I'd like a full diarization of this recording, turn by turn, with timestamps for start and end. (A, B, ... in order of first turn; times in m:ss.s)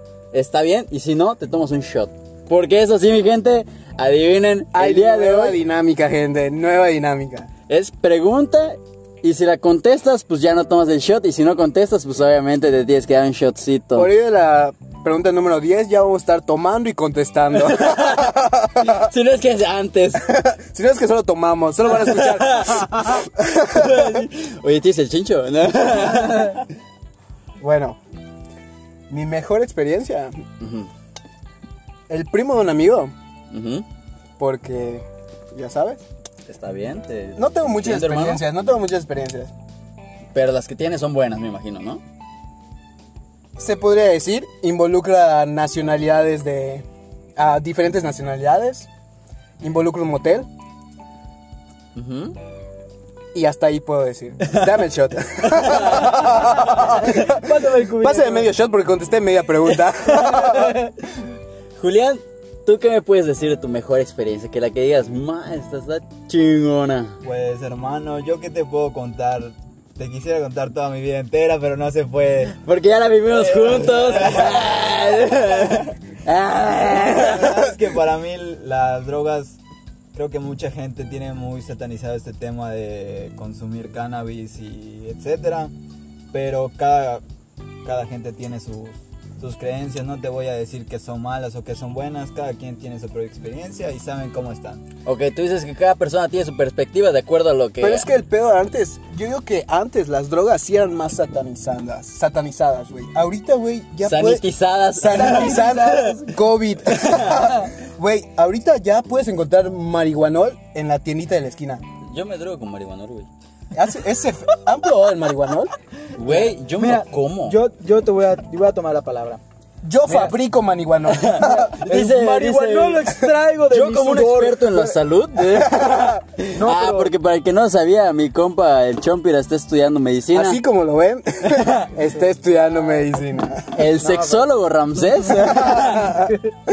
0:00.3-0:05.6 A
0:04.7-0:07.5 B
0:07.7-0:14.1 A
0:14.0-0:19.1 B
0:17.6-0:20.3 A
0:20.2-0:24.3 B
0:22.0-0:23.1 A
0:23.7-0:26.7 A
0:27.6-0:28.0 B
0:29.1-0:30.4 B
0:30.6-0:30.9 A
0:32.1-0:33.1 B
0:33.5-0:33.8 A
0:34.4-0:36.0 B
0:36.5-0:38.4 A
0:37.4-0:39.5 B
0:40.3-0:42.0 A
0:43.6-0:46.9 B
0:47.4-0:48.9 B
0:49.6-0:50.5 B
0:52.0-0:52.4 A
0:53.3-1:00.8 B
0:55.6-0:56.2 A
0:56.5-0:58.5 C
1:00.4-1:00.9 C
1:01.8-1:07.2 A
1:07.2-1:12.6 D
1:12.5-1:17.6 A
1:13.3-1:15.9 D
1:17.1-1:19.6 D
1:20.1-1:25.7 D
1:26.3-1:27.2 D
1:27.8-1:34.8 D
1:35.0-1:38.1 A
1:37.8-1:51.8 B
1:44.0-1:46.0 A
1:45.1-1:46.2 C
1:47.0-1:47.4 A
1:52.0-1:53.3 A
1:53.7-1:55.7 B
1:56.2-1:57.6 A
1:56.3-1:59.4 C
1:59.8-2:01.8 B
2:00.1-2:00.3 C
2:01.1-2:03.2 A
2:01.4-2:05.0 C
2:03.7-2:10.6 A
2:05.6-2:06.1 B
2:06.5-2:07.1 C
2:10.3-2:13.7 B
2:11.5-2:11.9 A
2:13.7-2:16.3 A
2:14.0-2:14.5 C
2:15.4-2:16.3 B